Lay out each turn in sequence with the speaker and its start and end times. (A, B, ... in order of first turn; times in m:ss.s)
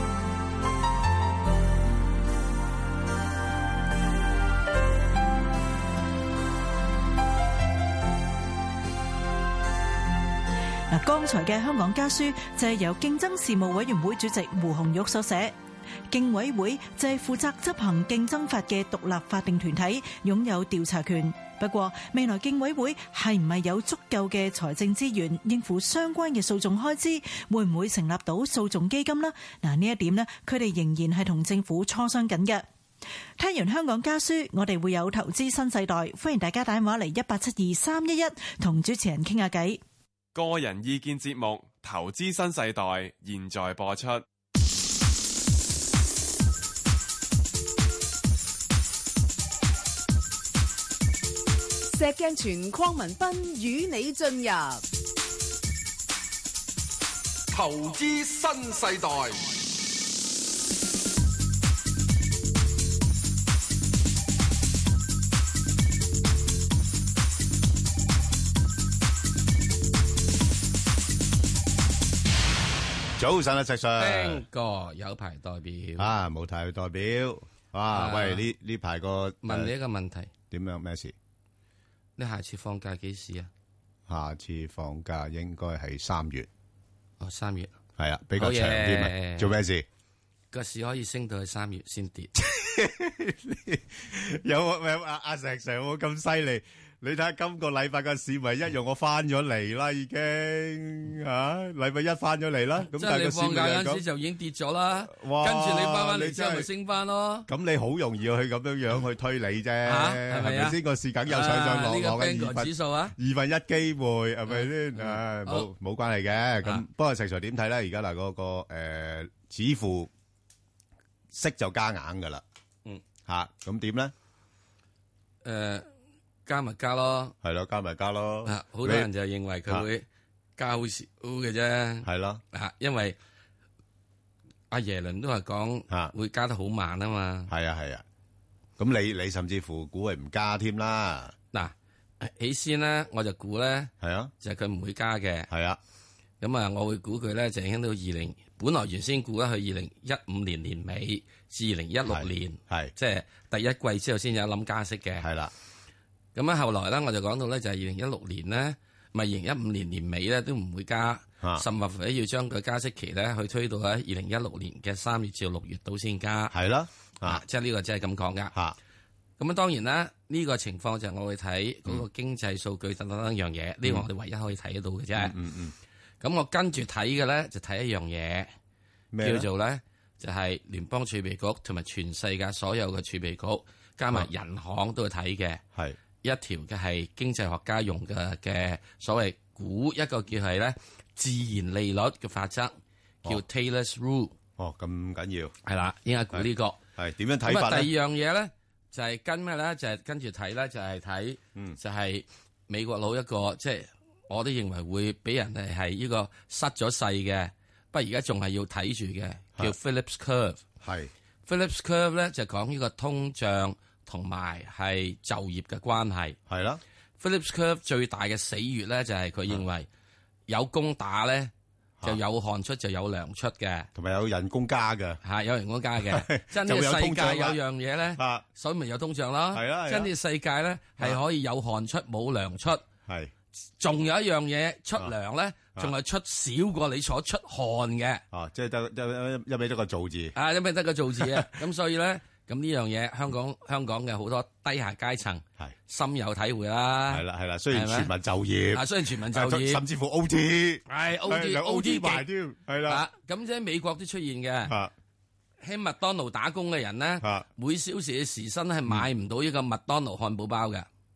0:10.9-0:15.6 A
0:16.1-0:32.6 A
0:33.4-0:39.8 A
0:40.4-0:44.2 B
0:51.9-0:54.8 C
0:57.5-0:59.5 D
1:13.2-1:14.4 E
1:14.0-1:16.1 F
1:16.0-1:19.7 E
1:17.9-1:18.4 F
1:19.4-1:20.3 F
1:20.5-1:21.1 E
1:22.2-1:23.5 F
1:24.1-1:26.5 E
1:27.2-1:27.7 F
1:28.0-1:29.9 E
1:28.4-1:29.6 F
1:30.5-1:32.3 F
1:32.4-1:44.0 E
1:42.9-1:47.5 F
1:45.1-1:46.7 E
1:47.5-2:00.1 E
1:49.8-1:53.1 F
1:54.5-1:55.7 F
2:01.3-2:02.4 E
2:03.3-2:04.1 E
2:05.4-2:05.9 F
2:06.5-2:07.3 F
2:07.4-2:09.1 E
2:08.5-2:10.0 F
2:10.6-2:13.2 F
2:12.0-2:12.4 E
2:14.7-2:17.5 F
2:17.5-2:18.0 E
2:18.8-2:21.4 E
2:21.5-2:23.9 F
2:24.0-2:24.3 E
2:24.4-2:25.5 F
2:25.5-2:25.8 E
2:26.4-2:35.3 F
2:32.1-2:32.9 E
2:35.2-2:35.5 E
2:36.4-2:46.5 F
2:46.5-2:47.4 E
2:47.2-2:48.5 F
2:49.4-2:55.3 F
2:55.2-2:55.7 E
2:56.2-2:58.5 F
2:59.1-2:59.5 E
2:59.2-3:05.6 F
3:06.2-3:14.3 F
3:14.6-3:15.5 E
3:15.7-3:16.8 F
3:16.3-3:17.9 E
3:17.5-3:30.6 F
3:30.8-3:31.1 E
3:31.5-3:36.4 F
3:36.5-3:36.8 E
3:37.2-3:39.9 F
3:40.5-3:41.5 F
3:42.0-3:43.9 F
3:44.0-3:45.2 E
3:45.2-3:52.8 F
3:46.0-3:47.6 E
3:48.2-3:48.4 E
3:49.5-3:50.1 E
3:53.1-3:53.3 E
3:53.8-3:58.2 F
3:58.3-4:00.4 E
4:00.4-4:08.1 F
4:01.2-4:01.5 E
4:07.1-4:13.0 E
4:08.7-4:09.8 F
4:10.9-4:12.2 F
4:12.9-4:14.8 F
4:14.7-4:14.9 E
4:15.6-4:20.9 F
4:17.2-4:17.5 E